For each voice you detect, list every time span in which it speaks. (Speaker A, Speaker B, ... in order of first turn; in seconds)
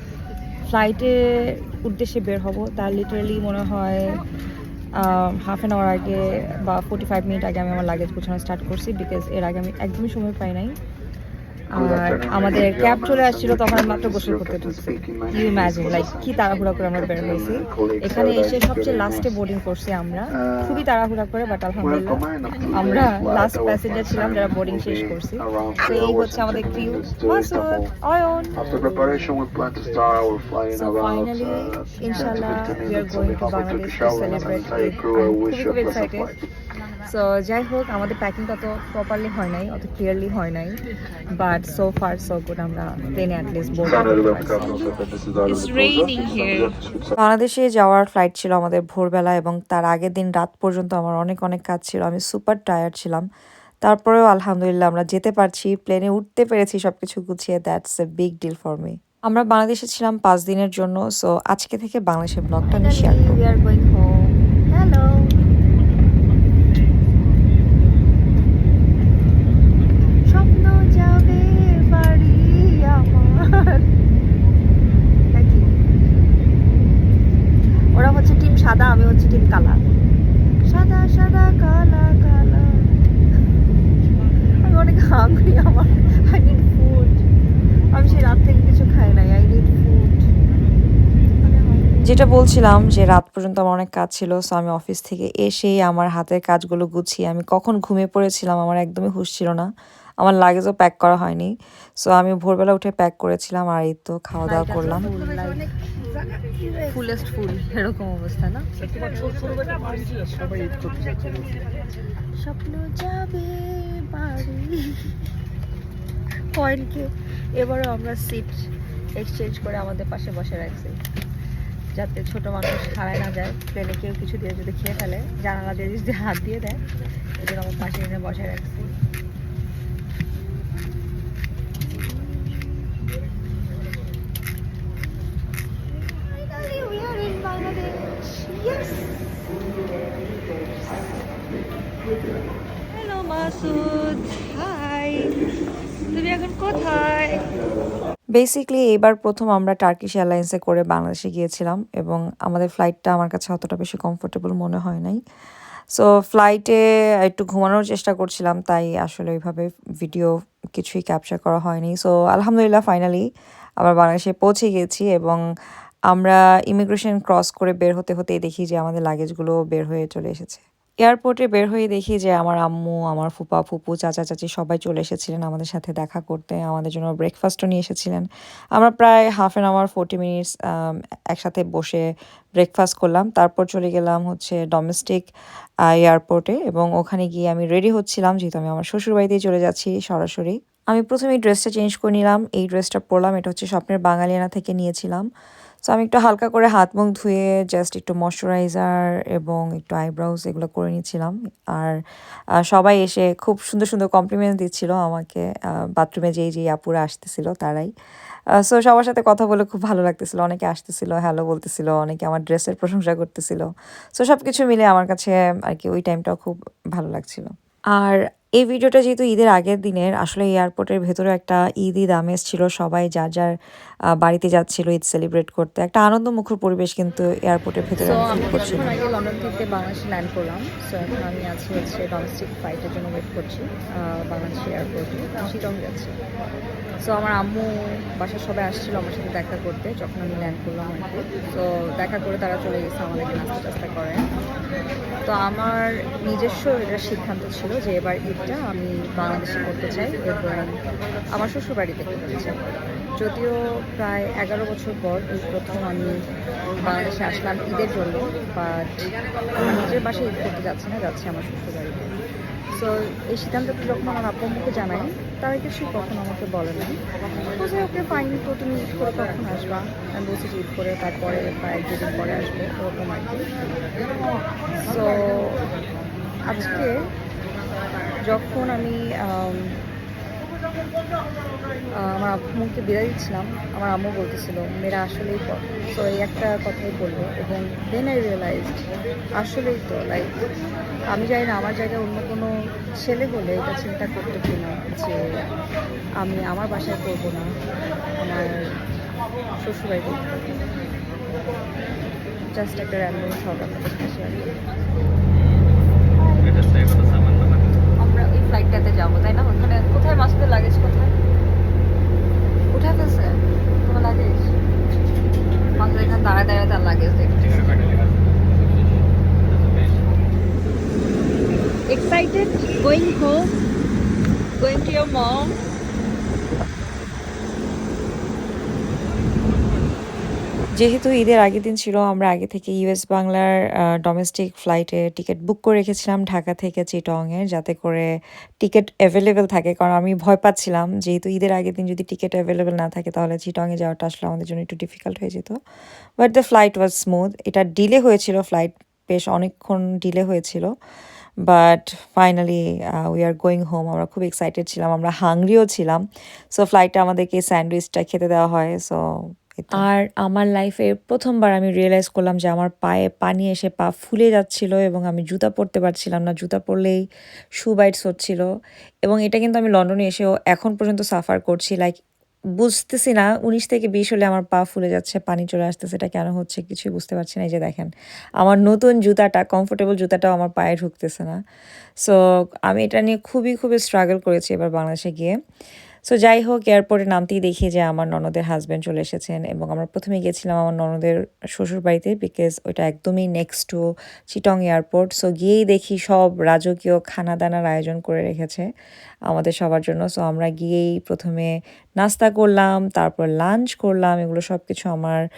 Speaker A: 0.7-1.1, 1.8-4.1, 5.2-10.7, 27.3-28.5, 44.5-53.2, 53.8-63.5, 92.0-99.7, 100.2-101.5, 102.0-105.1, 142.9-145.2, 146.1-147.3, 148.3-155.2, 155.9-163.2, 163.8-165.4, 166.1-182.0, 182.6-185.3, 185.9-195.3, 195.8-201.9, 202.7-207.9, 208.6-223.5, 224.2-229.0, 330.8-338.1, 338.6-345.6, 346.2-350.7, 351.4-356.0, 356.5-359.0, 359.6-367.0, 367.6-368.4, 369.0-372.0, 372.6-377.9, 378.4-381.4, 382.0-385.3, 386.1-398.6, 399.3-405.2
Speaker B: 3.4-4.2, 5.9-6.7, 7.2-8.1, 11.8-25.2, 25.9-27.5, 28.3-28.5, 32.0-36.3, 37.0-40.8, 41.4-44.7, 62.6-65.3, 70.2-73.9, 75.3-75.8, 77.9-79.8, 80.7-83.0, 84.5-87.3, 87.9-90.3, 91.4-92.0, 104.5-105.7, 106.4-111.4, 112.4-115.2, 116.5-121.0, 121.9-126.8, 127.4-129.0, 132.0-132.6, 136.1-139.0, 146.5-146.8, 228.0-236.2, 237.0-244.3, 245.2-250.7, 251.3-252.6, 253.2-256.2, 256.8-262.2, 262.7-267.0, 267.5-273.5, 274.8-275.7, 276.5-276.9, 278.2-279.8, 282.0-288.8, 289.4-290.3, 291.1-295.2, 296.2-297.5, 298.2-298.6, 299.6-300.7, 302.5-304.8, 306.2-306.9, 308.0-311.2, 312.7-314.5, 315.8-317.9, 321.9-323.5, 324.6-325.6
Speaker C: 11.8-19.4, 20.3-20.9, 21.8-27.9, 28.6-36.4, 43.9-47.1